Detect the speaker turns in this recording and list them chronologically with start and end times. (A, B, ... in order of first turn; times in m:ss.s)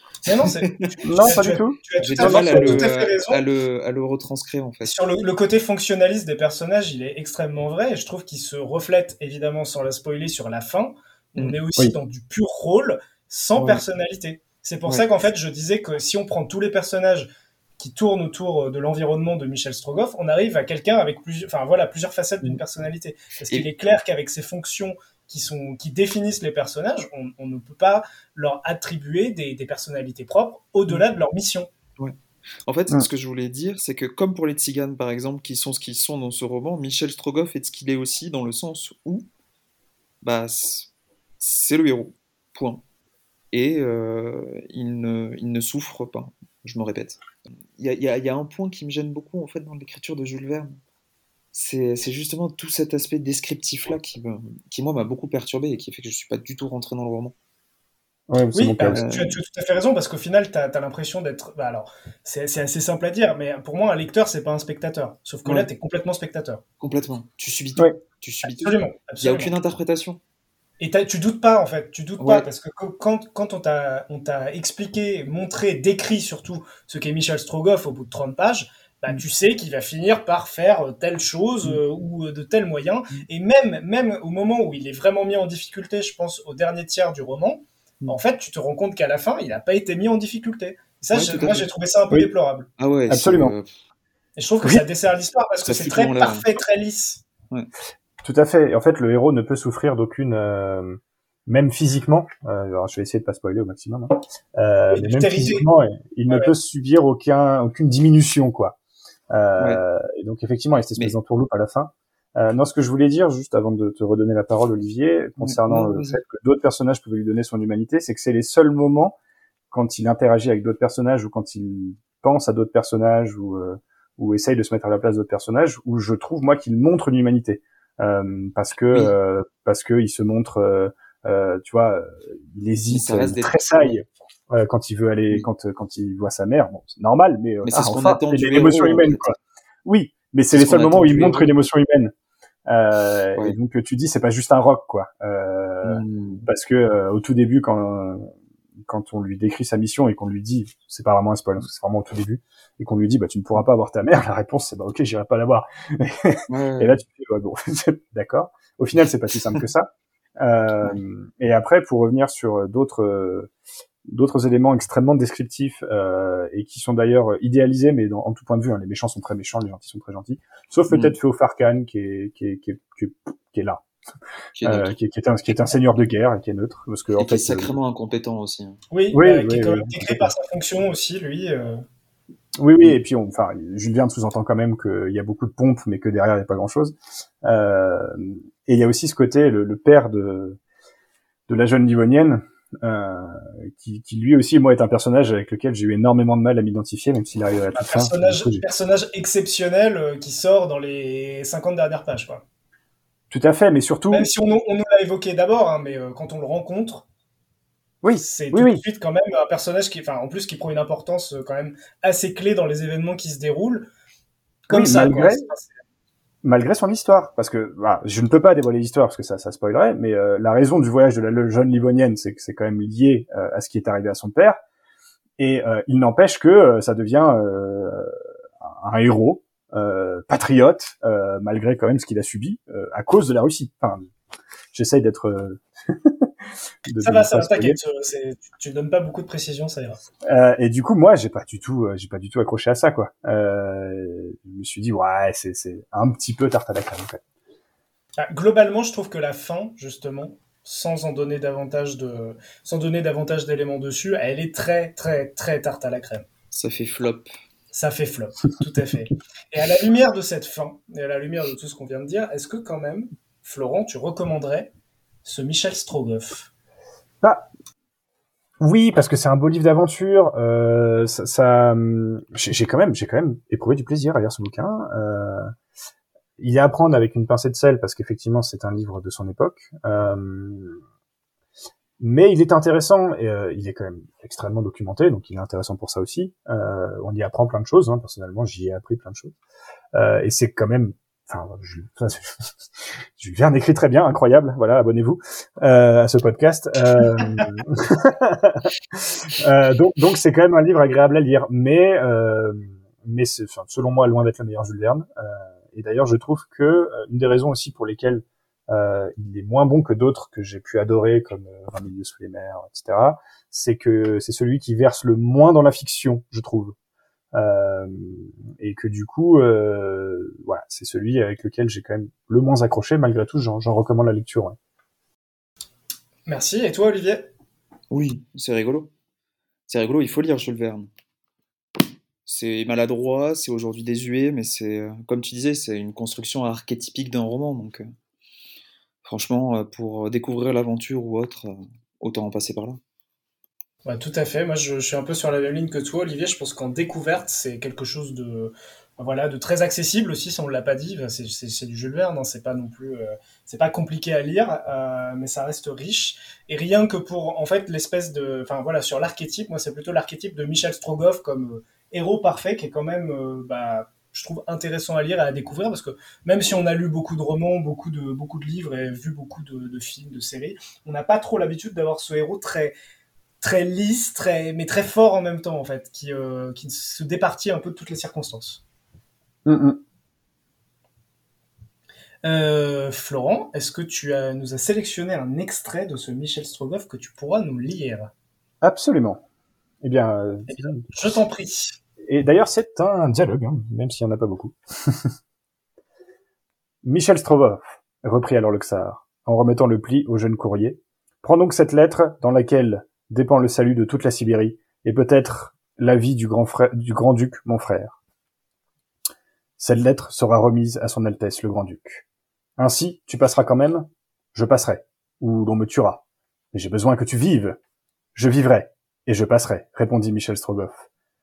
0:00.3-0:03.4 A
0:00.3-0:01.4 B
0:01.0-0:02.8 C
0:02.0-0:04.9 B
0:04.8-0:31.7 A
0:32.0-0:39.3 B
0:40.2-0:42.8 B
0:43.5-0:47.2 B
0:47.8-0:50.8 B
0:51.5-0:57.3 B
0:58.3-0:59.0 C
0:58.5-1:06.6 A
0:58.9-0:59.4 B
1:06.8-1:10.2 B
1:08.4-1:09.5 A
1:10.8-1:32.7 A
1:12.2-1:12.5 B
1:31.1-1:31.7 B
1:32.8-1:33.7 B
1:33.1-1:33.6 C
1:34.4-1:37.2 A
1:35.6-1:36.4 B
1:38.2-1:48.8 C
1:44.9-1:45.6 A
1:49.3-1:59.2 C
1:55.4-1:56.2 B
1:59.7-2:19.3 C
2:12.9-2:14.0 B
2:17.7-2:19.3 B
2:19.8-2:22.1 C
2:20.5-2:21.5 B
2:22.7-2:28.4 C
2:25.8-2:26.5 B
2:28.9-2:43.5 C
2:36.5-2:37.0 B
2:44.1-2:53.8 C
2:50.9-2:51.2 B
2:54.6-2:54.9 B
2:54.6-2:57.8 C
2:57.2-2:58.8 B
2:58.9-3:01.8 A
2:59.1-3:00.3 C
3:02.6-3:10.6 C
3:11.5-3:18.6 C
3:17.8-3:22.4 A
3:23.3-3:24.3 C
3:24.1-3:27.0 A
3:28.0-3:28.8 C
3:28.2-3:33.9 A
3:34.7-3:35.8 A
3:34.7-3:35.4 C
3:36.4-3:44.6 C
3:45.4-3:54.1 C
3:54.7-3:56.3 C
3:56.9-3:57.8 C
3:57.0-4:00.0 A
4:00.2-4:07.2 C
4:08.2-4:16.2 A
4:16.5-4:17.3 B
4:17.7-4:24.7 A
4:25.2-4:26.5 A
4:27.2-4:27.5 C
4:28.6-4:35.5 C
4:36.4-4:40.8 C
4:42.0-4:49.4 C
4:49.9-4:52.5 C
4:53.2-5:16.8 C
5:17.3-5:24.6 C
5:26.3-5:27.3 A
5:27.9-5:28.9 B
5:29.7-5:30.9 B
5:32.3-5:37.9 B
5:39.0-5:42.8 B
5:43.8-6:12.7 A
6:13.4-6:18.6 A
6:19.4-6:19.8 C
6:22.2-6:28.1 A
6:28.6-6:29.2 C
6:29.8-6:30.9 C
6:30.5-6:31.8 A
6:32.0-6:35.1 C
6:36.8-6:48.0 C
6:49.6-6:52.0 C
6:52.6-6:56.0 C
6:56.5-6:57.6 C
6:58.2-7:00.9 C